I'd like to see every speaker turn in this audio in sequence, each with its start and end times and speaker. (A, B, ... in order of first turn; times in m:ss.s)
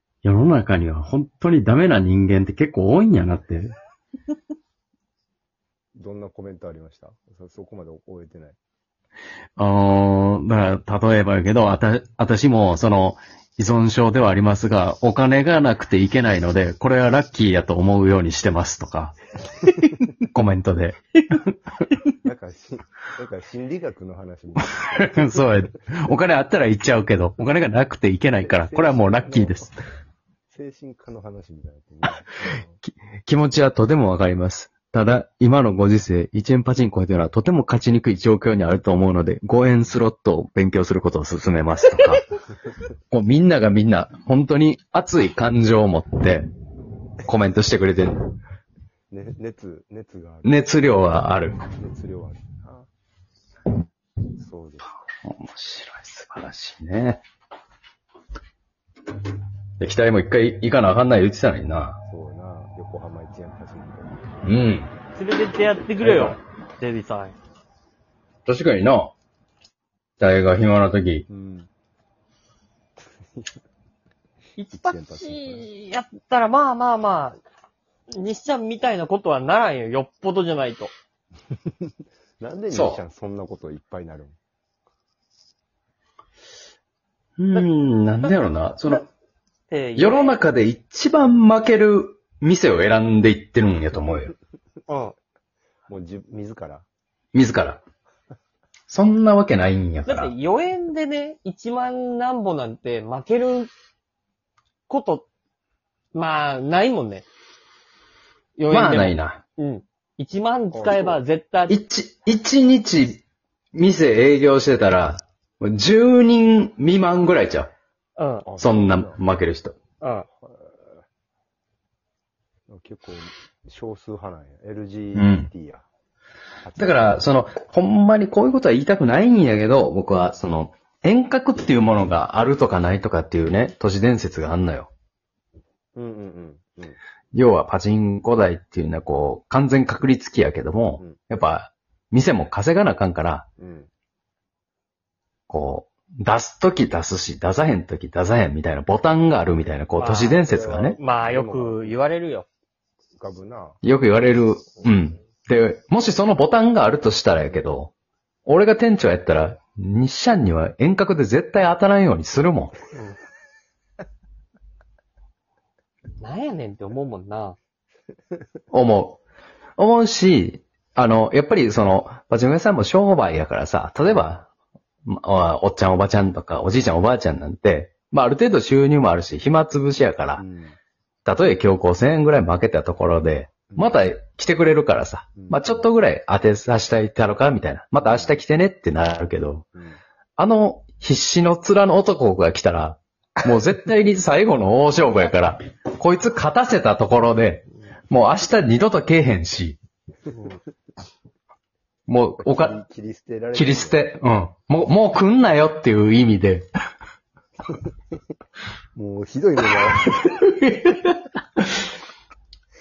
0:00.2-0:03.7 A
0:06.0-0:08.6 B
0:09.6-0:22.0 A
0:22.2-0:25.3 B
0:24.6-0:29.8 A
0:28.4-0:29.6 B
0:30.5-0:32.8 B
0:32.5-0:42.3 A
0:43.1-0:46.4 A
0:47.2-0:48.2 A
0:49.1-0:50.6 B
0:50.4-0:51.6 A
0:51.8-0:52.9 B
0:54.4-0:54.9 B
0:55.3-0:57.2 A
0:59.8-1:02.0 A
1:02.1-1:04.1 B
1:04.4-1:04.9 A
1:05.2-1:07.4 C
1:08.5-1:09.1 A
1:10.2-1:11.3 A
1:11.3-1:11.7 B
1:13.0-1:13.6 B
1:14.6-1:17.4 C
1:14.7-1:15.7 B
1:18.1-1:20.9 C
1:21.9-1:24.4 B
1:22.7-1:23.0 A
1:27.4-1:29.1 A
1:29.7-1:30.4 C
1:30.0-1:34.3 A
1:34.9-1:35.2 C
1:35.9-1:36.9 B
1:37.3-1:37.8 A
1:38.9-1:40.3 A
1:40.1-1:43.7 C
1:44.9-1:45.3 C
1:46.1-1:47.3 C
1:48.6-1:51.8 C
1:48.7-1:49.4 A
1:50.7-1:51.2 B
1:51.7-1:53.2 A
1:53.7-1:57.7 A
1:58.2-1:58.5 C
1:58.4-1:59.2 B
1:58.6-1:59.7 A
2:00.0-2:00.3 C
2:00.3-2:01.0 B
2:02.7-2:05.8 B
2:05.1-2:05.5 A
2:06.6-2:07.2 B
2:06.8-2:14.9 A
2:16.0-2:17.0 B
2:17.3-2:23.5 A
2:23.6-2:23.9 B
2:25.5-2:31.0 A
2:30.0-2:32.5 C
2:30.4-2:32.0 B
2:33.2-2:33.8 B
2:33.8-2:37.9 A
2:38.5-2:42.8 A
2:46.2-2:47.6 C
2:48.7-2:49.2 A
2:49.8-2:54.5 A
2:54.1-2:54.4 B
2:55.0-3:00.4 A
3:00.4-3:00.8 B
3:01.2-3:09.7 A
3:03.7-3:04.0 B
3:05.4-3:05.9 B
3:08.0-3:08.4 B
3:09.8-3:10.0 B
3:10.4-3:19.8 A
3:20.3-3:20.6 C
3:22.1-3:22.8 A
3:22.4-3:24.1 B
3:23.5-3:26.7 A
3:29.0-3:30.4 B
3:30.2-3:31.9 A